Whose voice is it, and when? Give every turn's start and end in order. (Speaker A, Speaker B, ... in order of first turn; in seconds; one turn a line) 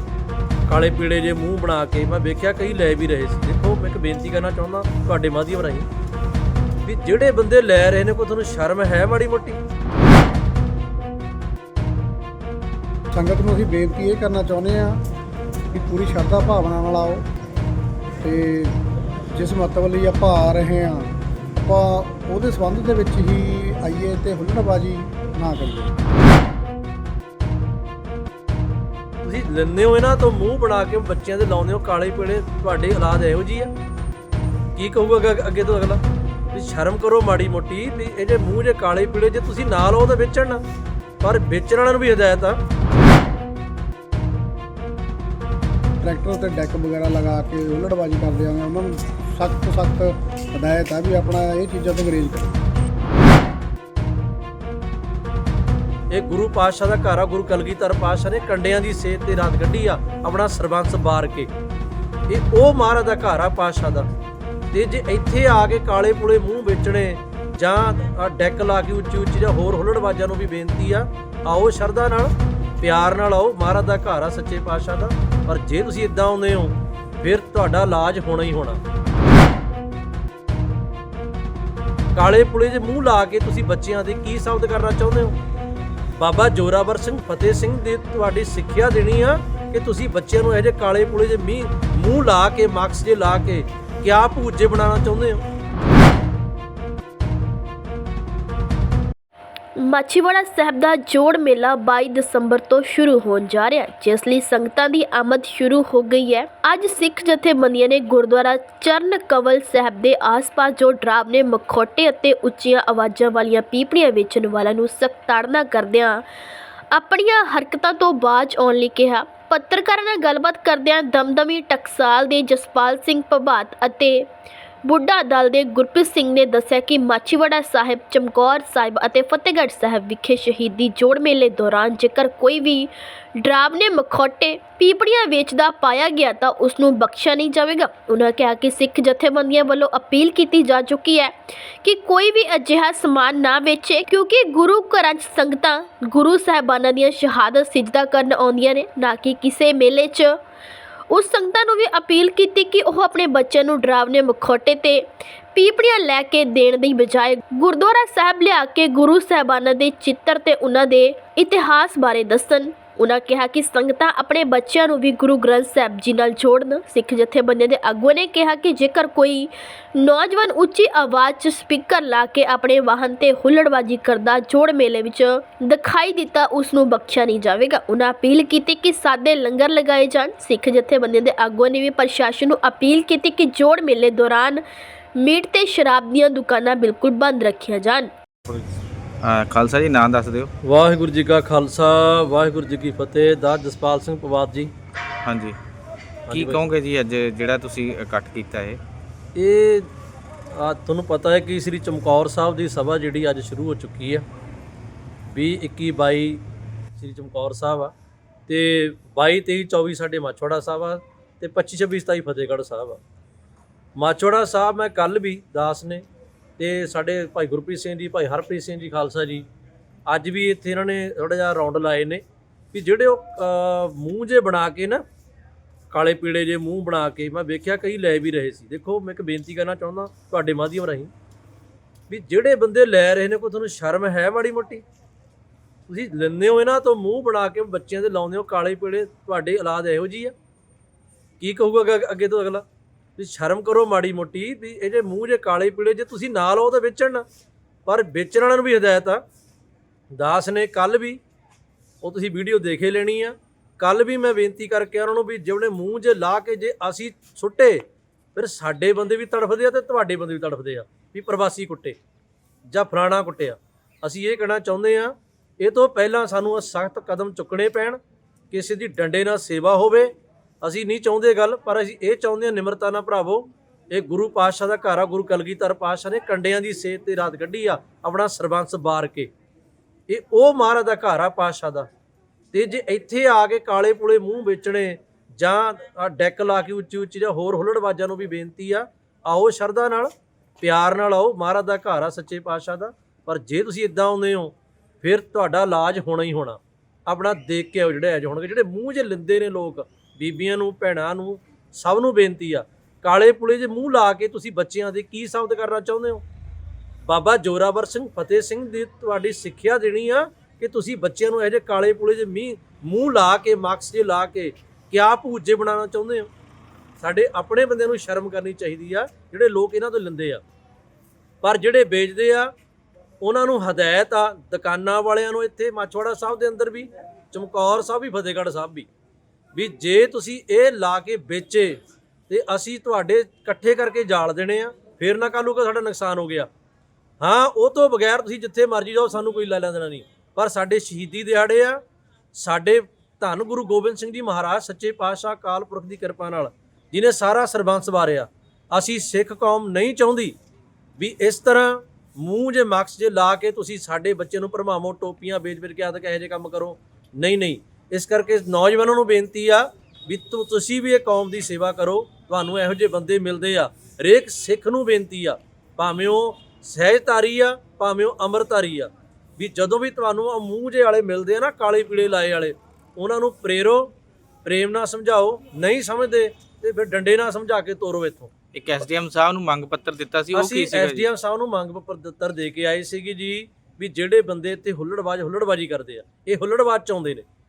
Speaker A: 0.7-5.9
Speaker A: 6.8-9.6
Speaker B: 13.1-15.0
Speaker B: 15.7-17.2
Speaker B: 18.2-18.8
Speaker B: 19.3-25.9
Speaker A: 29.2-33.7
Speaker A: 34.7-36.0
Speaker A: 36.5-40.6
Speaker A: 41.2-42.6
Speaker B: 46.0-52.6
Speaker A: 56.1-61.5
Speaker A: 62.3-64.1
Speaker A: 64.7-78.8
Speaker A: 82.1-85.3
Speaker A: 86.2-95.4
Speaker C: 99.8-116.2
Speaker C: 116.9-124.3
Speaker C: 124.8-150.4
Speaker C: 151.1-184.6
Speaker C: 185.2-188.1
Speaker D: 189.2-190.5
Speaker A: 190.6-194.7
Speaker D: 195.2-195.6
Speaker A: 196.3-196.7
Speaker D: 196.3-198.8
Speaker A: 199.3-199.9
Speaker A: 200.5-204.2
Speaker A: 205.3-206.4
Speaker A: 207.0-207.9
Speaker A: 208.5-213.0
Speaker A: 214.0-216.0
Speaker A: 216.6-219.4
Speaker A: 220.1-225.0
Speaker A: 225.9-231.1
Speaker A: 232.1-234.8
Speaker A: 235.9-240.3
Speaker A: 241.4-242.6
Speaker A: 243.2-247.2
Speaker A: 247.8-249.2
Speaker A: 250.1-251.2
Speaker A: 252.0-257.8
Speaker A: 258.3-262.0
Speaker A: 262.7-268.0
Speaker A: 268.5-270.1
Speaker A: 270.6-279.3
Speaker A: 280.1-281.9
Speaker A: 282.5-306.2
Speaker A: 307.1-316.3
Speaker A: 317.0-320.4
Speaker A: 321.4-322.5
Speaker A: 323.2-328.9
Speaker A: 329.5-336.5
Speaker A: 337.2-341.8
Speaker A: 342.3-350.3
Speaker A: 351.0-373.9
Speaker A: 374.4-378.3
Speaker D: 378.5-381.1
Speaker A: 380.3-387.2